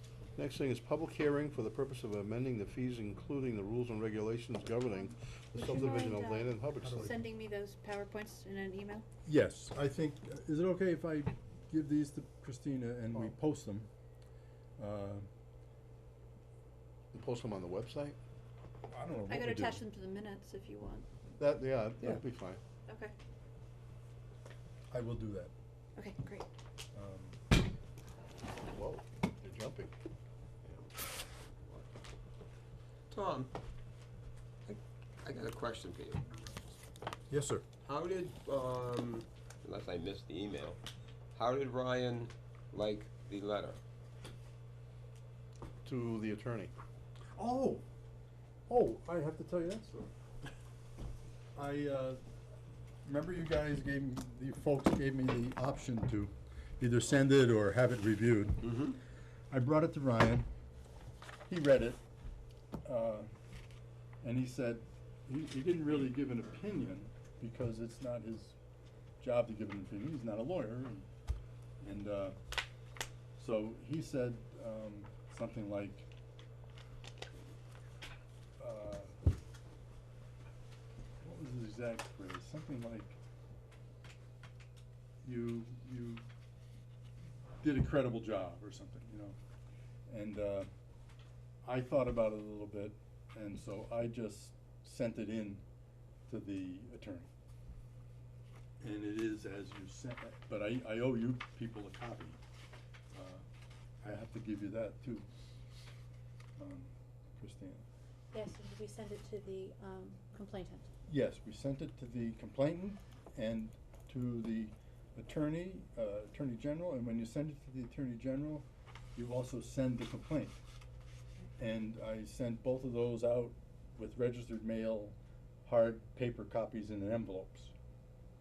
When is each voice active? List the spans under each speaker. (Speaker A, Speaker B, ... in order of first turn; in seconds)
Speaker A: 0.4-7.2, 17.1-18.2, 21.4-22.6, 28.7-29.9, 37.3-37.6, 45.9-46.7
Speaker B: 5.5-9.1, 19.3-21.1, 22.9-23.1, 26.0-26.5, 108.3-110.9
Speaker C: 6.8-7.2, 9.3-13.9, 14.8-15.3, 18.9-19.8, 24.9-25.5, 26.9-27.4, 47.4-47.8, 48.7-50.1, 51.5-52.2, 53.0-58.7, 59.5-60.5, 61.5-62.0, 62.9-63.3, 64.2-68.5, 69.2-71.1, 71.8-72.4, 73.4-76.1, 78.6-79.2, 81.2-83.2, 85.2-86.3, 87.6-89.4, 90.1-90.7, 91.6-95.6, 96.3-97.3, 98.8-102.4, 103.1-103.4, 104.0-105.3, 106.6-107.8, 111.1-120.6, 121.6-127.7
Speaker D: 30.6-30.9, 33.1-33.5, 34.7-36.3, 37.8-40.8, 41.4-43.8, 58.6-59.0